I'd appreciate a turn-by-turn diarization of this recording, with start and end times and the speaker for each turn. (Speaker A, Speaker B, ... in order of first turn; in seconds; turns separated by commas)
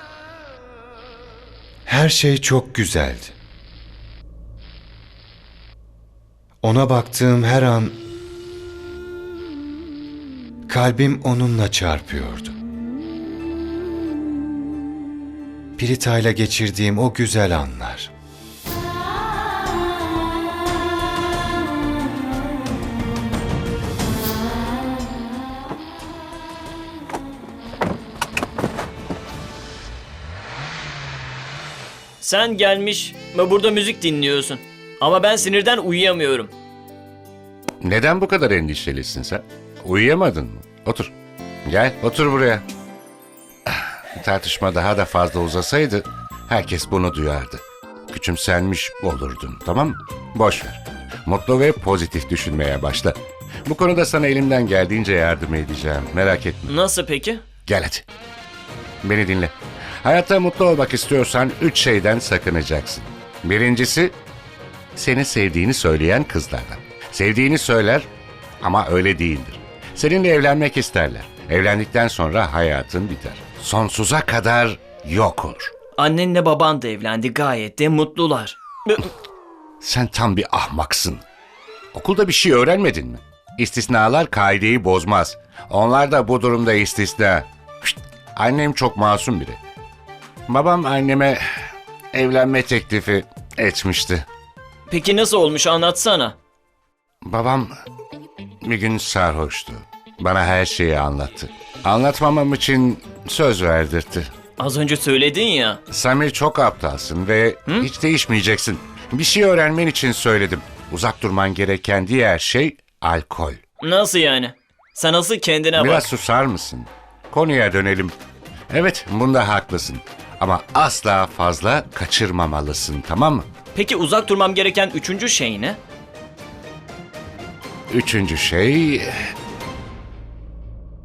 Speaker A: 1.9-3.3, Speaker A: 6.6-7.9, Speaker A: 10.7-12.5, Speaker A: 15.8-18.1, Speaker B: 32.2-36.5, Speaker C: 37.8-41.1, Speaker C: 41.6-42.6, Speaker C: 43.6-56.7, Speaker B: 56.7-57.4, Speaker C: 57.6-58.0, Speaker C: 59.0-64.2, Speaker C: 65.0-68.1, Speaker C: 68.6-75.7, Speaker B: 76.0-79.1, Speaker C: 79.8-81.2, Speaker C: 81.9-89.6, Speaker C: 90.5-91.4, Speaker C: 92.1-94.2, Speaker B: 94.9-96.3, Speaker C: 97.2-97.7, Speaker C: 98.6-104.3, Speaker B: 104.6-105.8, Speaker C: 105.9-113.6, Speaker B: 113.8-116.1, Speaker C: 115.7-118.1, Speaker C: 118.7-123.5, Speaker B: 123.7-125.8, Speaker C: 127.9-129.1